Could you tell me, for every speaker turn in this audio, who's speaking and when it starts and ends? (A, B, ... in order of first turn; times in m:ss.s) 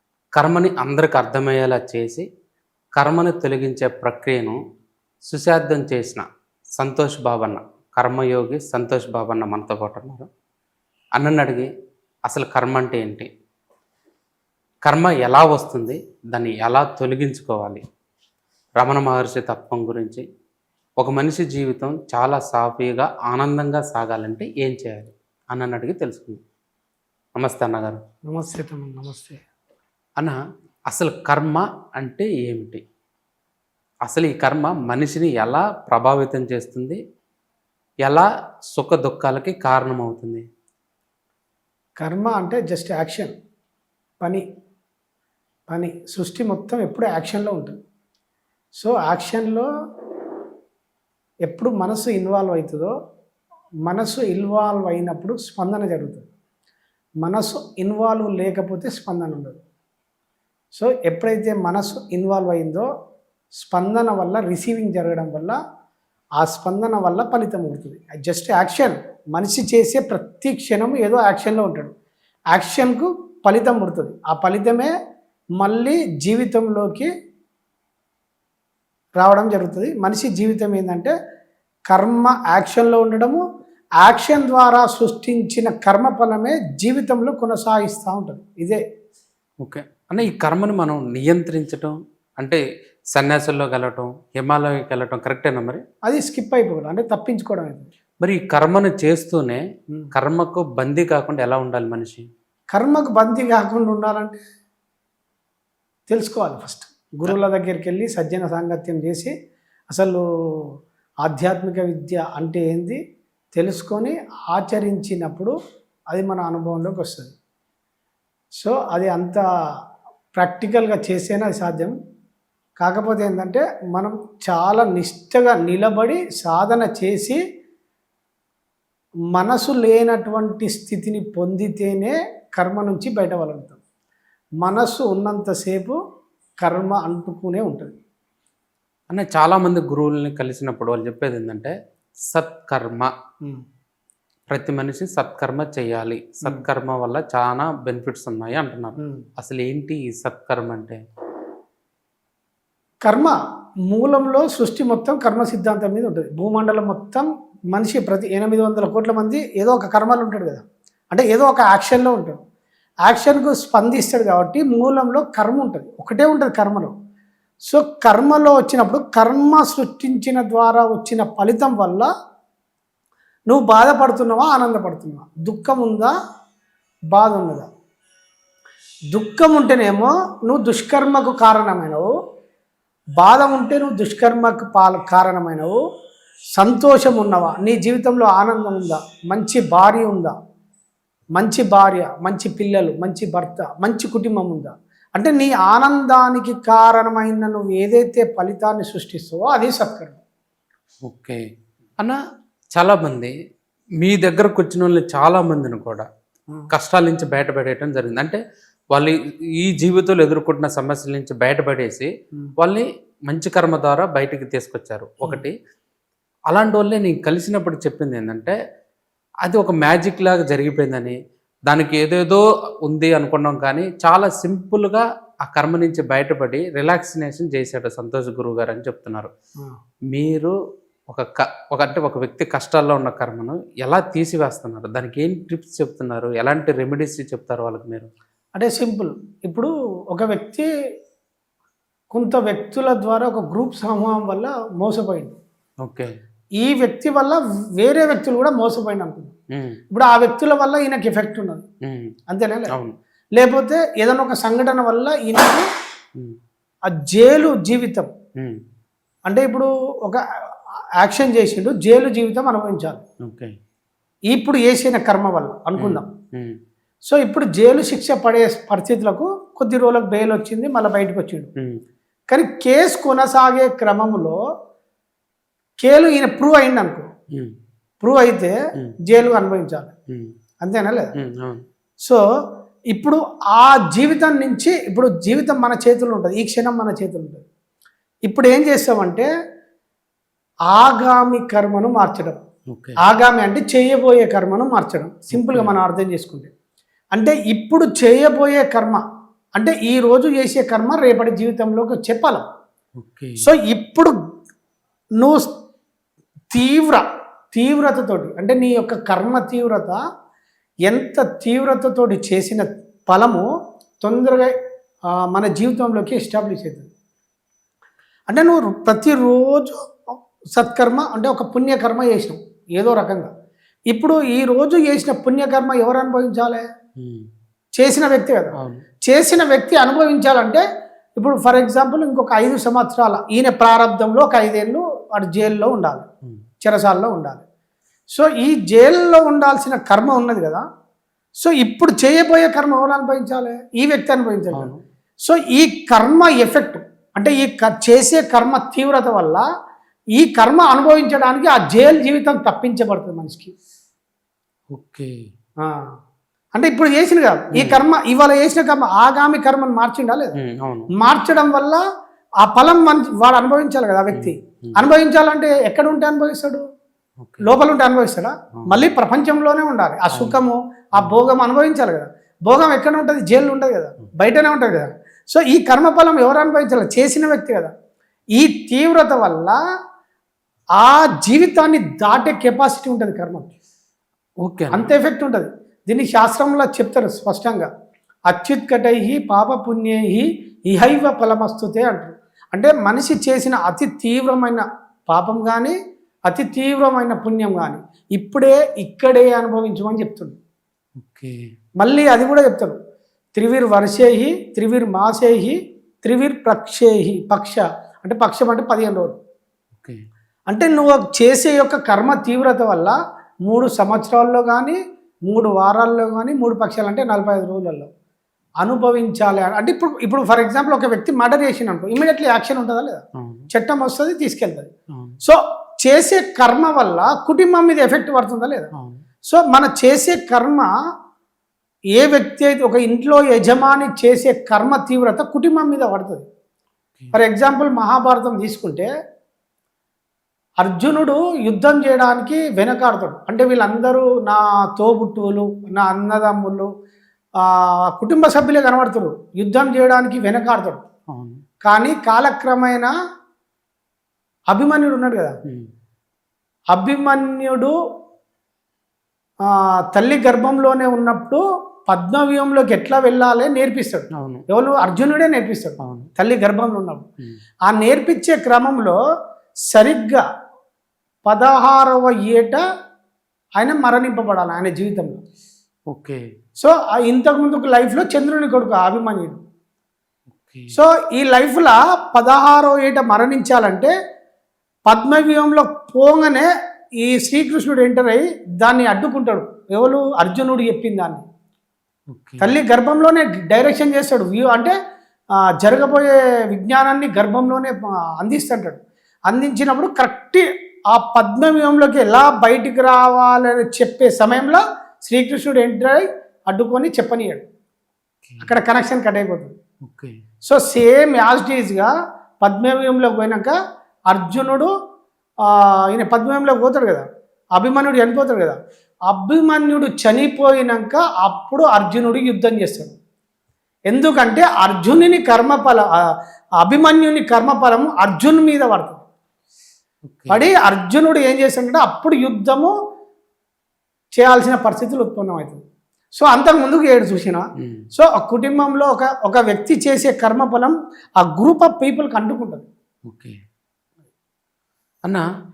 0:00.4-0:02.2 A
0:03.0-0:04.6 A
0:05.3-0:06.2 A
0:06.8-0:10.3 A
0:11.2-0:11.7 A
0:12.3-0:13.3 A
0:14.9-0:17.8 A
0:18.8-0:20.2 A
0:21.0-0:26.4 A
0:27.4-0:28.0 A
0:28.3-0:29.4 B
0:30.9-0:32.8 A
0:34.1-0:37.0 A
0:38.0-0:40.4 A
0:42.0-0:43.3 B
0:45.7-0:47.8 B
0:48.8-0:49.7 B
0:51.4-0:52.9 B
0:53.8-0:56.3 B
0:57.2-0:59.6 B
1:00.7-1:02.9 B
1:03.6-1:05.6 B
1:06.4-1:11.9 B
1:12.5-1:14.9 B
1:15.6-1:17.1 B
1:19.2-1:21.1 B
1:21.9-1:23.4 B
1:24.0-1:28.8 B
1:29.6-1:32.6 A
1:33.1-1:35.8 A
1:36.0-1:37.9 B
1:38.2-1:39.6 A
1:40.1-1:42.2 A
1:42.7-1:44.4 B
1:46.1-1:49.3 B
1:49.9-1:50.7 B
1:51.2-1:53.0 B
1:53.5-1:55.5 B
1:56.1-1:57.3 B
1:58.6-1:59.4 B
2:00.3-2:01.9 B
2:02.8-2:07.4 B
2:09.3-2:13.8 B
2:14.6-2:16.0 B
2:16.6-2:17.9 B
2:19.1-2:21.7 A
2:22.3-2:23.1 A
2:24.5-2:31.0 A
2:33.0-2:33.4 B
2:33.9-2:42.4 B
2:43.0-2:46.9 B
2:47.7-2:52.1 B
2:53.5-2:56.1 B
2:57.1-2:57.7 B
2:59.1-3:02.1 B
3:03.2-3:05.8 B
3:06.6-3:10.3 B
3:11.4-3:20.2 B
3:21.0-3:21.4 A
3:22.7-3:23.3 A
3:24.0-3:26.0 A
3:26.7-3:28.4 A
3:28.9-3:35.5 A
3:36.5-3:38.5 A
3:39.4-3:41.2 A
3:41.7-3:49.3 A
3:50.1-3:50.5 A
3:51.1-3:58.1 A
3:58.6-4:00.7 B
4:02.1-4:05.4 B
4:05.8-4:06.1 A
4:06.6-4:09.3 B
4:09.9-4:11.6 B
4:11.8-4:12.1 A
4:12.3-4:12.7 B
4:12.7-4:12.9 A
4:13.4-4:15.6 B
4:17.0-4:18.1 B
4:19.3-4:20.2 B
4:21.0-4:23.0 B
4:23.2-4:23.5 A
4:24.3-4:26.1 B
4:25.8-4:26.5 A
4:27.0-4:31.5 B
4:32.3-4:34.4 B
4:35.8-4:37.0 B
4:38.0-4:38.5 B
4:39.1-4:39.9 B
4:40.6-4:41.1 B
4:41.2-4:41.6 A
4:42.9-4:47.4 B
4:48.3-4:49.3 B
4:50.7-4:52.4 B
4:52.7-4:53.0 A
4:53.0-4:56.5 B
4:55.3-4:55.7 A
4:57.1-4:59.0 B
4:59.6-5:02.4 B
5:03.0-5:03.5 A
5:03.4-5:04.1 B
5:05.2-5:05.5 B
5:06.5-5:10.0 B
5:10.9-5:13.4 B
5:14.0-5:14.5 B
5:15.2-5:16.9 B
5:18.3-5:19.8 B
5:20.6-5:23.3 B
5:23.9-5:26.6 B
5:27.0-5:27.3 A
5:27.8-5:28.5 B
5:29.0-5:30.6 B
5:31.2-5:36.1 B
5:36.6-5:37.4 B
5:38.1-5:40.6 B
5:41.4-5:44.7 B
5:44.5-5:44.8 A
5:45.2-5:49.4 B
5:50.2-5:53.5 B
5:54.7-5:55.1 A
5:56.5-6:00.3 B
5:57.5-5:57.8 A
6:00.4-6:00.9 A
6:01.0-6:01.8 B
6:02.4-6:06.6 B
6:04.1-6:04.8 A
6:07.2-6:07.5 A
6:07.4-6:17.7 B
6:10.1-6:10.4 A
6:18.4-6:19.6 B
6:20.8-6:23.5 B
6:24.4-6:24.9 A
6:24.7-6:27.7 B
6:28.3-6:35.7 B
6:36.3-6:40.4 B
6:41.0-6:41.3 A
6:41.8-6:42.8 B
6:43.3-6:49.2 B
6:49.8-6:50.0 A
6:50.5-6:53.0 B
6:53.5-6:57.9 B
6:58.6-7:04.7 B
7:03.2-7:03.5 A
7:05.2-7:08.7 B
7:08.7-7:09.0 A
7:09.3-7:10.7 B
7:11.9-7:16.2 B
7:17.1-7:18.9 B
7:20.6-7:26.7 B
7:27.4-7:30.8 B
7:31.1-7:31.4 A
7:31.6-7:32.9 B
7:34.5-7:35.3 B
7:36.7-7:37.7 B
7:39.4-7:47.0 B
7:44.2-7:44.4 A
7:45.8-7:46.1 A
7:47.6-7:49.0 B
7:49.7-7:50.2 B
7:51.2-7:52.6 B
7:53.6-7:55.2 B
7:55.9-7:56.2 A
7:56.6-7:59.4 B
8:00.3-8:00.7 A
8:00.7-8:03.9 B
8:04.8-8:06.5 B
8:07.0-8:11.2 B
8:12.1-8:12.6 A
8:12.4-8:14.7 B
8:15.6-8:27.4 B
8:28.2-8:28.5 A
8:28.4-8:29.5 B
8:29.8-8:30.1 A
8:30.4-8:31.9 B
8:32.4-8:33.5 B
8:34.1-8:34.7 B
8:35.4-8:37.0 B
8:37.6-8:38.6 B
8:39.1-8:43.0 B
8:43.9-8:45.9 B
8:46.6-8:49.0 B
8:50.1-8:50.5 A
8:50.3-8:52.7 B
8:54.1-8:55.6 B
8:56.1-9:02.7 B
9:03.0-9:03.4 A